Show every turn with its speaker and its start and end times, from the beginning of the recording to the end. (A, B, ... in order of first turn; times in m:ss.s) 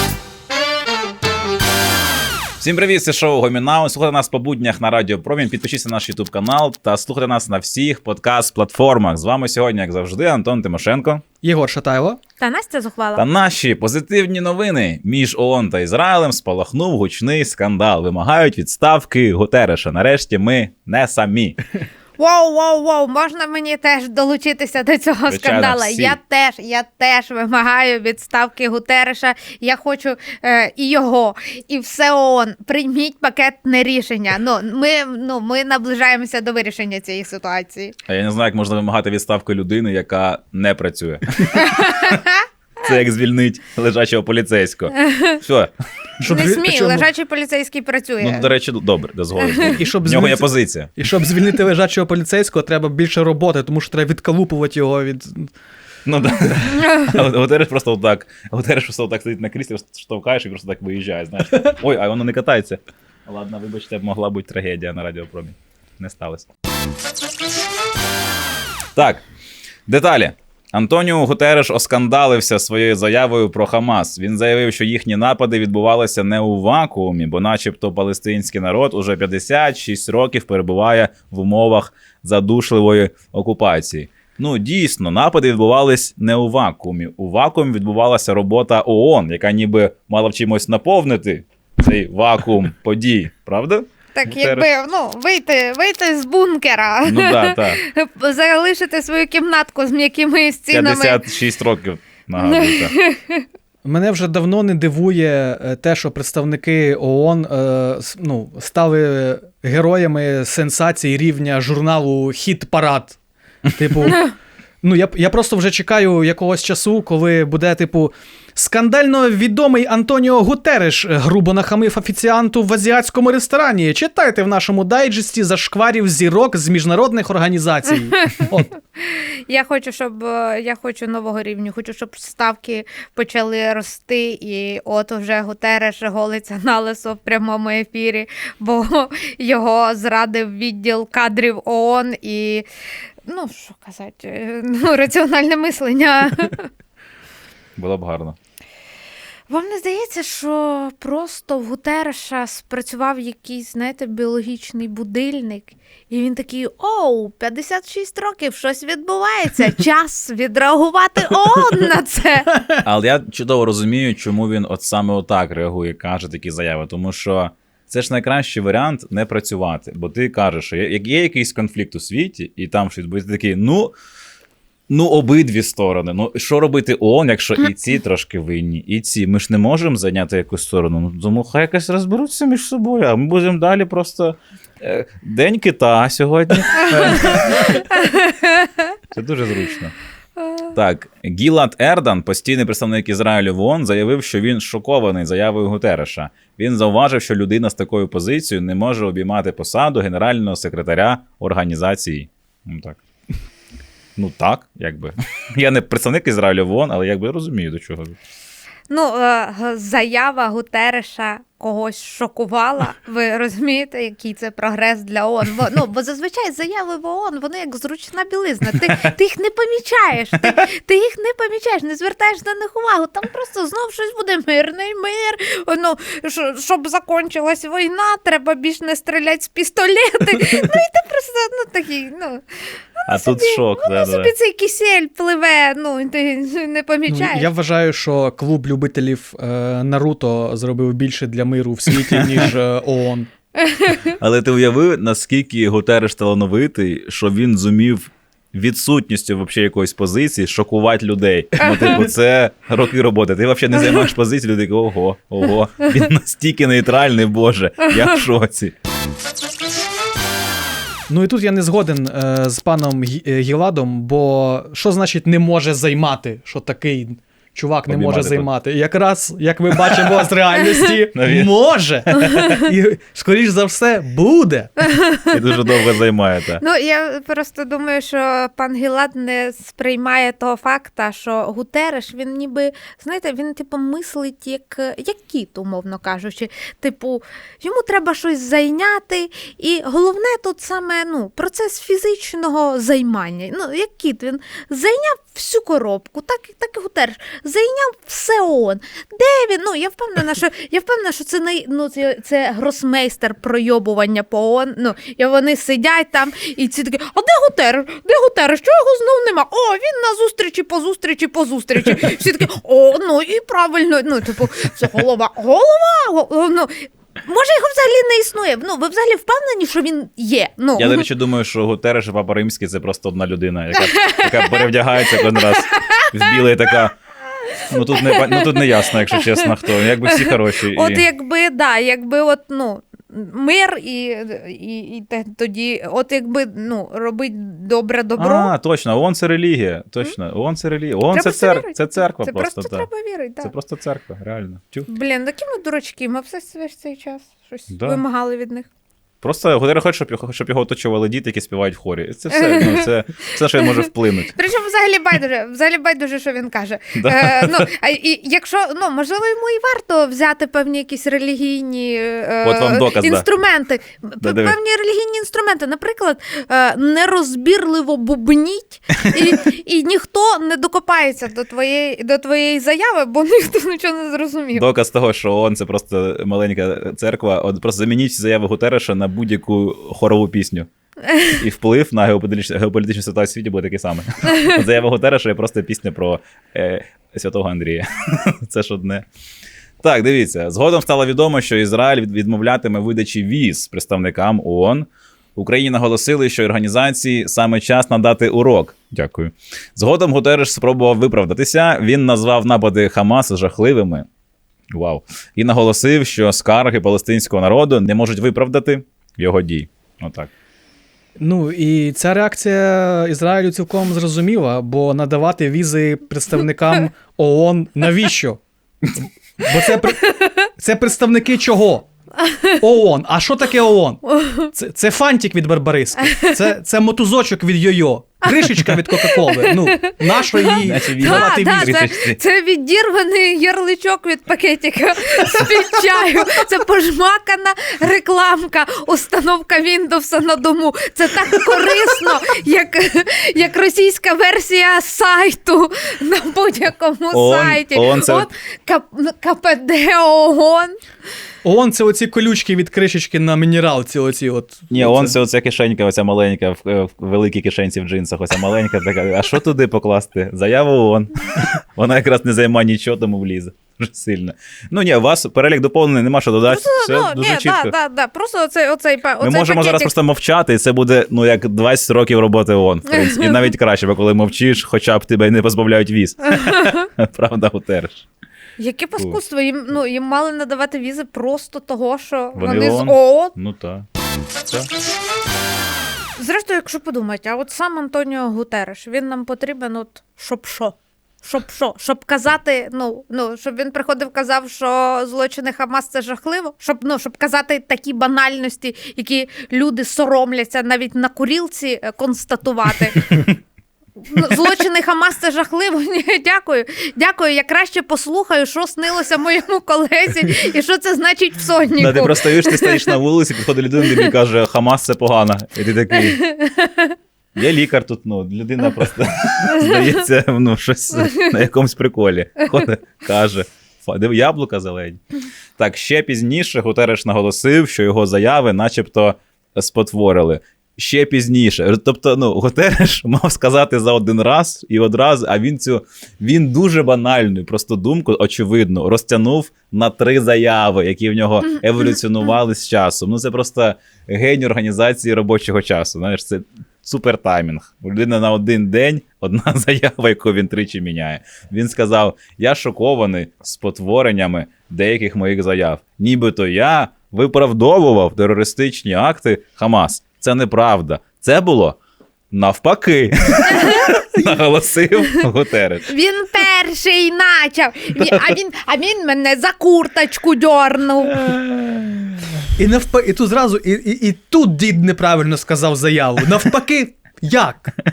0:02.6-0:11.2 A
0:11.4-0:12.2 B
0:12.4-0:13.2 C
0:13.2-0:21.6 A
0:22.2-0:37.9 C
0:25.3-0:26.2 A
0:38.1-0:42.2 A
0:41.6-0:42.4 C
0:42.8-0:45.7 A
0:45.1-0:45.4 C
0:46.2-0:47.1 B
0:46.2-0:48.5 C
0:48.2-0:50.9 A
0:49.4-0:49.8 C
0:49.7-0:55.5 B
0:56.0-1:06.5 A
1:09.0-1:09.2 A
1:09.9-1:34.7 A
1:34.1-1:41.2 C
1:37.0-1:37.8 A
1:40.7-1:43.0 A
1:42.4-1:43.4 C
1:43.8-1:53.2 B
1:53.7-2:08.7 B
1:54.1-1:54.3 C
2:08.1-2:22.7 C
2:23.2-2:26.7 C
2:27.8-2:28.4 A
2:29.5-2:42.5 C
2:42.8-2:53.9 A
2:54.9-3:07.8 A
3:07.0-3:08.9 C
3:09.1-3:09.9 A
3:10.4-3:10.7 C
3:10.8-3:23.0 A
3:24.2-3:28.2 A
3:28.9-3:52.4 C
3:53.0-3:57.5 C
3:53.1-3:54.3 A
3:57.1-4:03.3 B
4:03.6-4:04.1 C
4:04.2-4:18.7 A
4:11.6-4:12.0 C
4:21.1-4:34.7 B
4:27.9-4:28.5 A
4:31.1-4:31.5 A
4:34.8-4:35.4 C
4:35.3-4:36.6 A
4:36.6-5:21.1 C
5:20.8-5:26.9 A
5:23.8-5:26.3 C
5:27.7-5:31.1 A
5:27.9-5:28.6 C
5:29.1-5:29.5 C
5:30.1-5:38.5 C
5:38.2-5:42.9 A
5:41.1-5:43.5 C
5:43.4-5:44.9 A
5:44.9-5:48.7 C
5:47.7-5:48.0 A
5:49.2-5:54.4 A
5:52.3-5:52.9 C
5:53.6-6:14.7 C
5:57.0-5:57.7 A
6:02.4-6:03.3 A
6:04.2-6:04.6 A
6:14.5-6:20.7 A
6:21.1-6:21.4 C
6:21.3-6:29.0 A
6:29.8-6:44.1 A
6:44.7-6:50.3 A
6:51.2-6:58.4 B
6:59.4-7:01.8 B
7:02.2-7:02.5 C
7:02.6-7:11.8 B
7:04.1-7:04.5 C
7:08.9-7:30.8 C
7:10.6-7:12.2 A
7:27.1-7:28.3 A
7:31.4-7:35.1 B
7:34.7-7:47.7 A
7:46.4-7:49.9 C
7:49.2-7:58.1 A
7:52.9-7:53.4 C
7:56.5-7:56.8 C
7:58.6-8:03.3 C
8:02.4-8:03.9 A
8:06.2-8:23.3 C
8:24.1-8:32.9 C
8:31.8-8:36.2 A
8:36.0-8:37.0 C
8:37.4-8:45.0 A
8:45.6-9:21.8 A
9:22.3-9:25.9 A
9:23.5-9:23.9 C
9:25.9-9:31.2 C
9:28.0-9:28.3 A
9:32.6-9:37.8 B